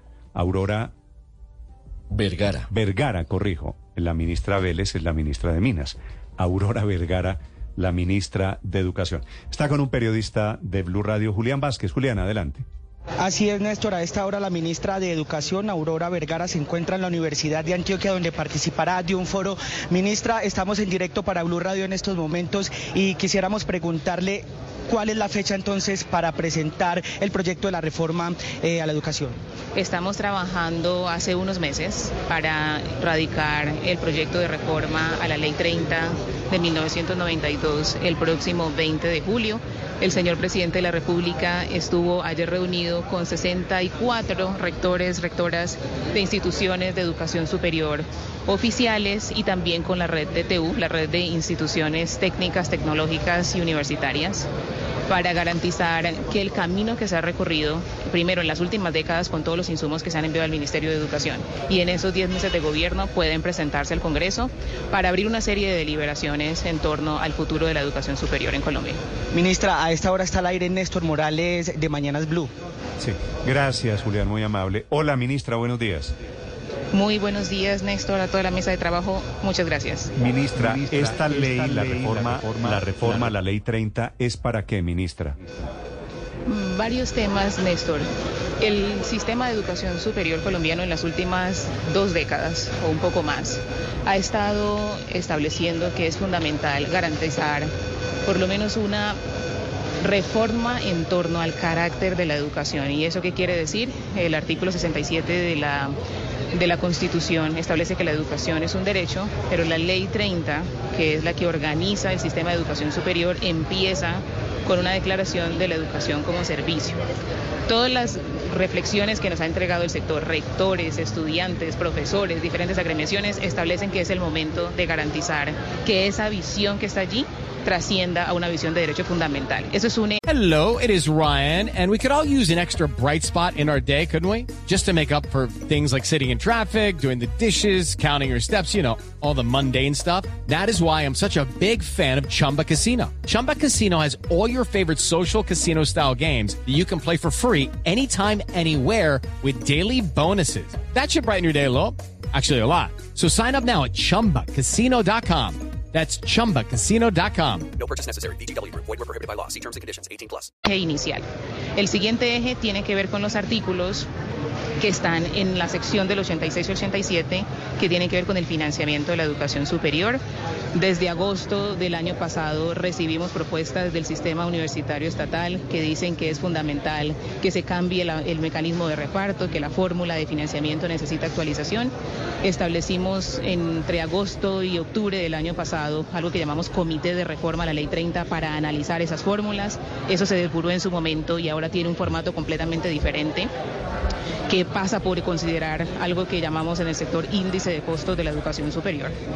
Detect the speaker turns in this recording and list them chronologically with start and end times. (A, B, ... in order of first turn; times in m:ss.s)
0:00.3-0:00.9 A
0:02.1-0:02.6 B
0:02.7-0:12.6 A
0:13.2-0:29.4 C
0:29.7-0:54.5 D
0:55.1-1:09.0 D
1:09.3-1:12.5 C
1:13.0-1:16.1 A
1:16.9-1:20.1 D
1:20.2-1:25.4 A
1:20.5-1:23.4 B
1:26.4-1:28.1 D
1:28.6-1:37.7 D
1:38.2-1:39.2 D
1:40.0-1:45.9 D
1:46.5-1:57.0 D
1:57.7-2:10.2 D
2:10.2-2:37.7 E
2:37.8-2:40.5 F
2:40.6-2:41.2 D
2:41.8-2:44.1 D
2:44.8-2:50.2 D
2:50.7-3:13.5 D
3:14.5-3:19.2 D